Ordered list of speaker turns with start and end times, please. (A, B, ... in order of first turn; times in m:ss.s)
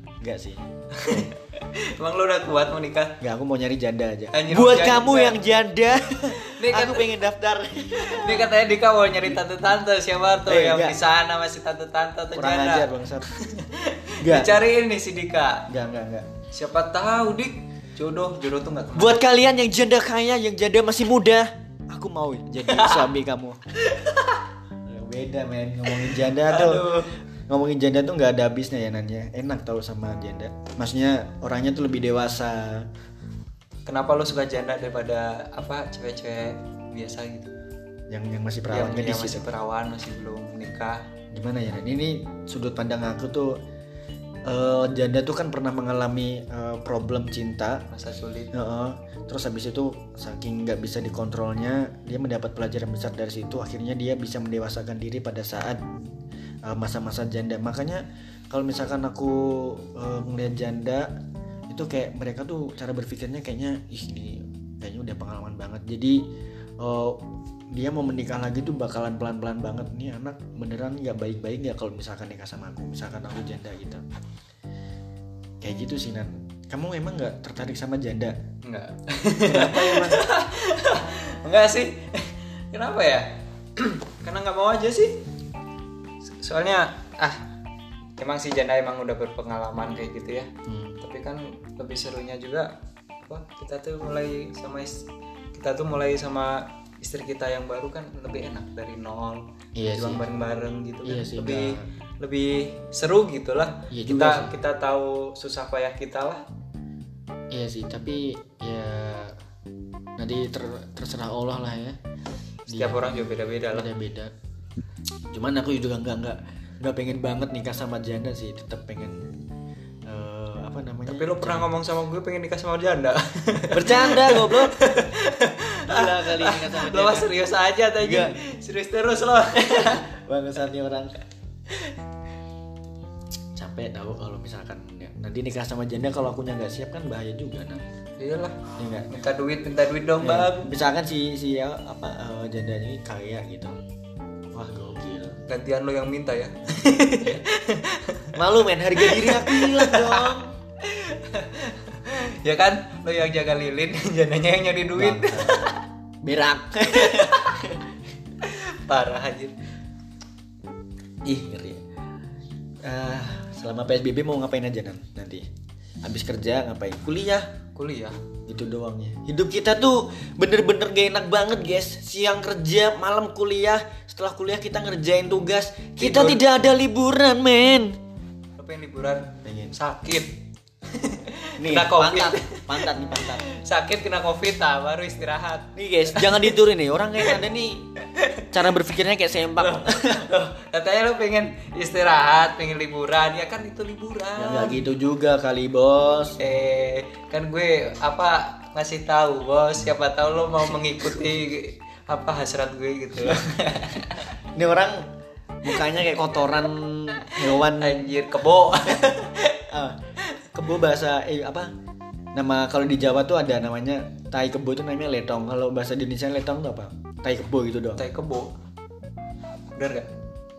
0:00.2-0:01.3 A
0:00.9-0:03.2 B
0:03.2-0:08.5 A
0:04.3-0:05.4 B
0:06.4-0:07.1 B
0:08.0-0:15.7 B
0:10.5-0:11.0 A
0:12.3-0:13.3 A
0:14.2-0:14.6 A
0:15.7-0:16.3 A
0:16.5-0:19.2 B
0:19.0-0:23.6 A
0:22.7-0:23.1 B
0:23.8-0:24.4 B
0:24.8-0:27.0 A
0:25.9-0:27.1 B
0:27.5-0:32.9 A
0:33.9-0:37.5 B
0:38.1-0:39.5 A
0:38.7-0:41.0 B
0:41.3-0:43.6 A
0:44.4-0:47.9 A
0:47.9-0:48.5 B
0:48.5-0:55.8 A
0:56.6-1:01.1 A
1:01.7-1:06.2 A
1:06.8-1:14.0 A
1:15.6-1:18.4 A
1:18.6-1:25.2 B
1:19.5-1:20.2 A
1:26.4-1:27.4 B
1:28.2-1:30.5 B
1:30.7-1:31.0 A
1:31.0-1:32.7 B
1:33.3-1:46.4 B
1:39.8-1:40.2 A
1:41.0-1:41.9 A
1:43.9-1:44.5 A
1:47.5-1:49.4 A
1:50.2-1:52.0 A
1:52.7-1:54.3 A
1:52.7-1:53.9 B
1:55.3-1:59.3 A
2:00.1-2:01.7 A
2:01.1-2:10.1 B
2:03.7-2:04.9 A
2:05.9-2:07.3 A
2:08.0-2:08.3 A
2:09.6-2:11.2 A
2:13.6-2:17.8 A
2:18.2-2:18.6 B
2:18.8-2:19.1 A
2:19.1-2:20.7 B
2:20.2-2:23.8 A
2:24.5-2:25.4 A
2:25.5-2:28.4 B
2:28.4-2:30.5 A
2:29.0-2:35.8 B
2:35.0-2:37.9 A
2:37.0-2:37.6 B
2:38.4-2:39.5 B
2:41.2-2:41.8 A
2:42.8-2:45.5 A
2:46.0-2:47.5 A
2:47.7-2:48.2 B
2:48.5-2:58.0 A
2:56.0-2:56.4 B
2:58.6-3:00.3 B
2:59.4-2:59.8 A
3:00.9-3:06.6 B
3:01.6-3:03.4 A
3:05.8-3:07.9 A
3:08.0-3:08.5 B
3:08.5-3:10.3 A
3:09.6-3:14.8 B
3:14.4-3:16.4 A
3:16.4-3:24.3 B
3:24.5-3:25.1 A
3:25.6-3:28.1 A
3:27.3-3:29.6 B
3:29.7-3:30.0 A
3:30.5-3:31.7 A
3:32.3-3:38.0 A
3:38.0-3:38.5 B
3:39.8-3:40.1 B